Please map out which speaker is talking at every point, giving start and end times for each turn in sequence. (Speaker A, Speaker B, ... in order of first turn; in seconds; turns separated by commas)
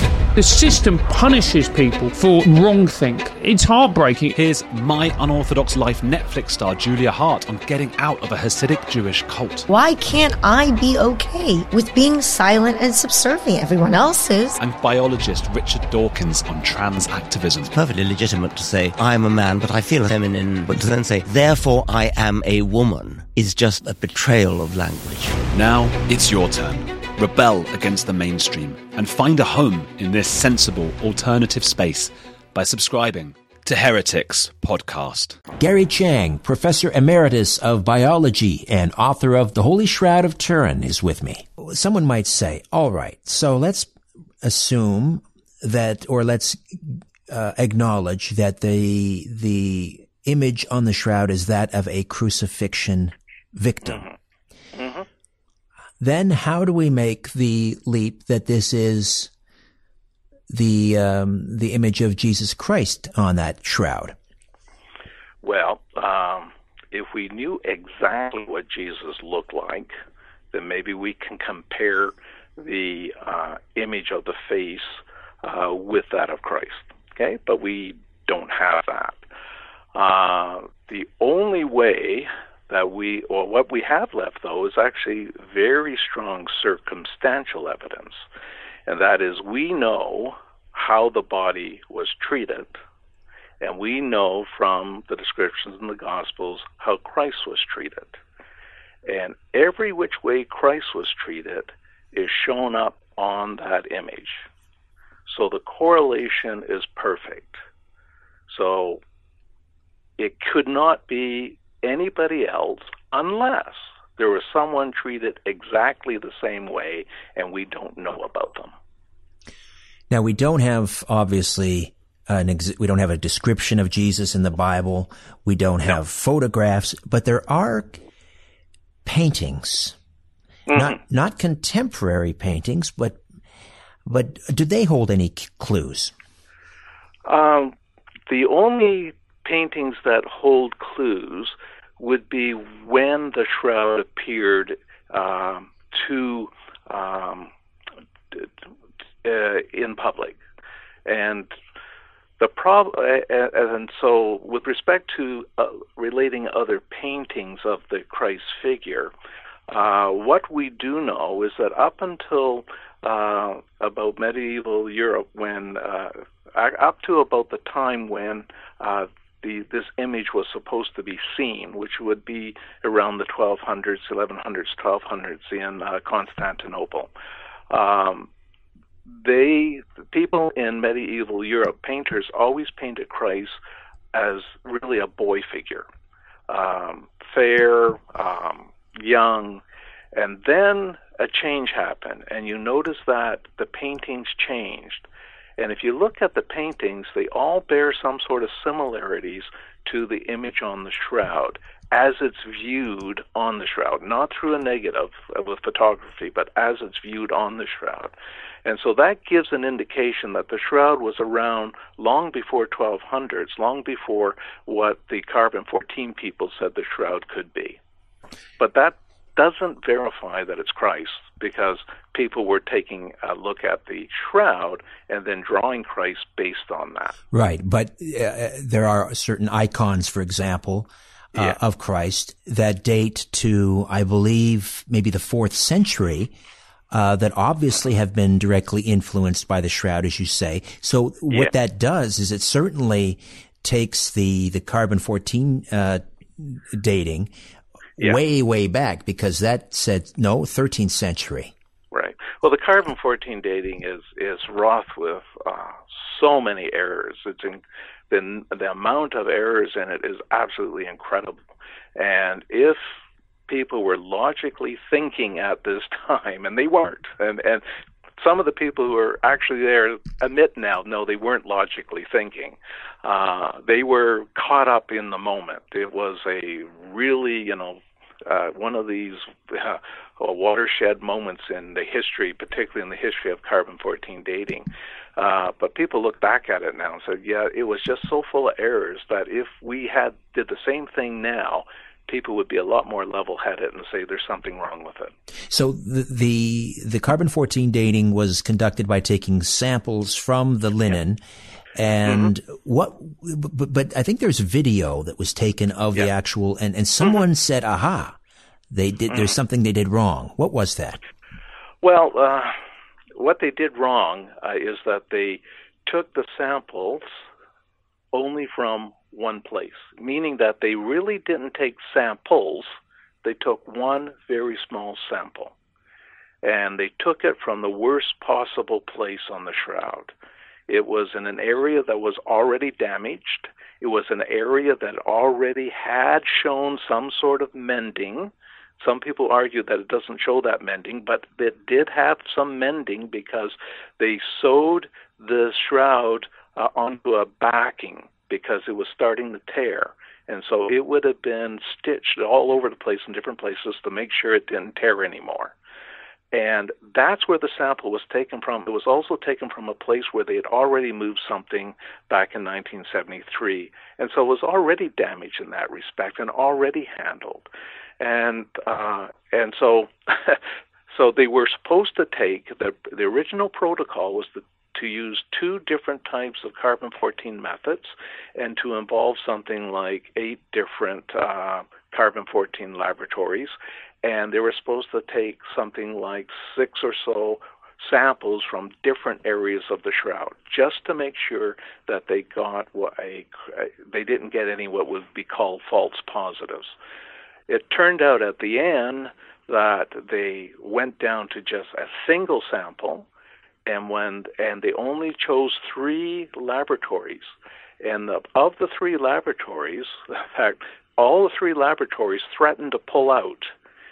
Speaker A: 0.3-4.3, Speaker B: 4.3-9.6, Speaker C: 9.7-14.6, Speaker B: 14.6-17.7, Speaker D: 17.7-25.4, Speaker B: 25.5-35.4, Speaker E: 35.6-43.9, Speaker E: 44.4-54.0, Speaker F: 53.8-54.1, Speaker F: 54.7-55.0, Speaker E: 56.0-59.3, Speaker E: 60.5-64.2, Speaker F: 65.4-69.9, Speaker F: 70.5-79.2, Speaker F: 79.9-88.2, Speaker F: 88.9-92.7, Speaker F: 93.6-98.2, Speaker F: 99.0-104.5, Speaker F: 105.3-107.6, Speaker F: 108.5-109.0, Speaker F: 110.2-118.7, Speaker E: 120.1-128.0, Speaker E: 129.0-129.9, Speaker F: 130.7-131.0, Speaker E: 130.7-133.2, Speaker E: 134.0-136.1, Speaker F: 137.2-137.7, Speaker F: 138.3-147.5, Speaker F: 149.2-150.4, Speaker F: 151.1-151.5, Speaker F: 152.4-159.1, Speaker F: 159.7-177.1, Speaker F: 177.7-178.3, Speaker F: 179.1-183.6, Speaker F: 184.1-185.8, Speaker F: 186.5-189.6, Speaker F: 190.1-195.1, Speaker F: 195.6-208.1, Speaker F: 208.6-217.8, Speaker F: 218.6-227.2, Speaker E: 227.3-236.3, Speaker E: 236.9-247.3, Speaker E: 248.0-251.5, Speaker F: 251.9-261.4, Speaker F: 261.9-262.9, Speaker F: 263.5-267.6, Speaker F: 268.2-295.1, Speaker E: 295.5-301.2, Speaker E: 301.7-308.2, Speaker F: 302.1-302.3, Speaker E: 308.7-311.0, Speaker F: 311.8-312.6, Speaker F: 313.1-317.1, Speaker F: 318.1-325.5, Speaker F: 326.4-330.1, Speaker F: 330.7-355.5, Speaker F: 356.3-367.5, Speaker F: 368.0-396.7, Speaker F: 397.5-403.1, Speaker F: 403.6-413.5